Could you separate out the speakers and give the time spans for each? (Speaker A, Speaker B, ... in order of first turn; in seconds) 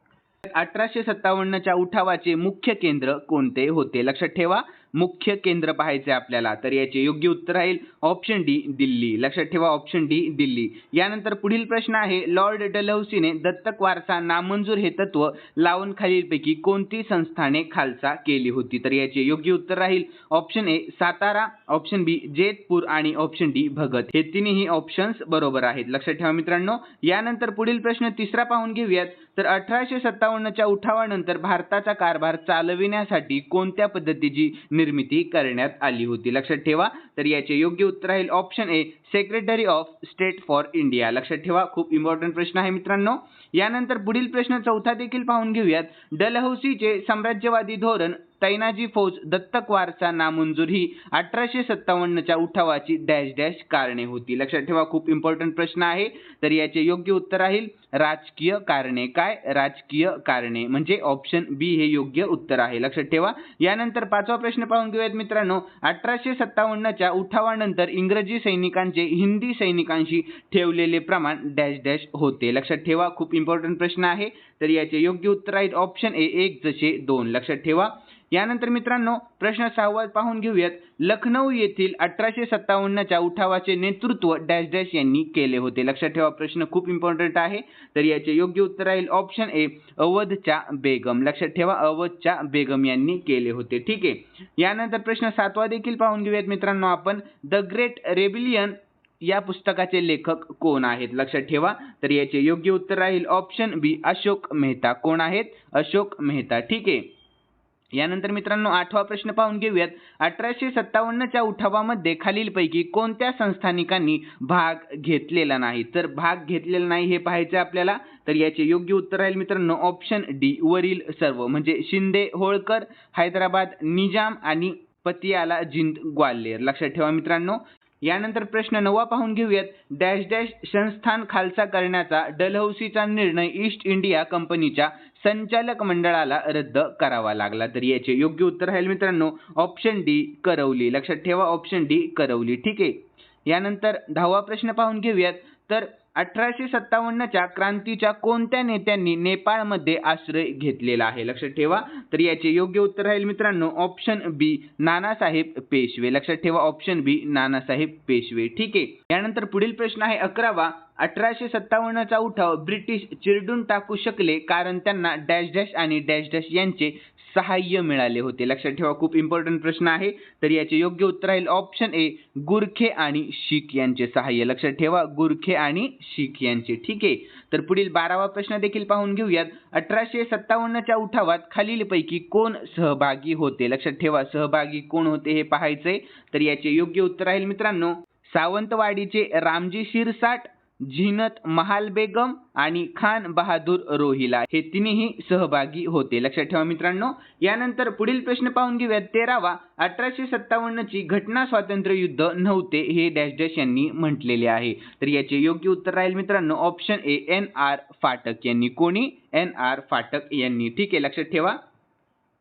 Speaker A: 0.5-107.0, 107.9-211.6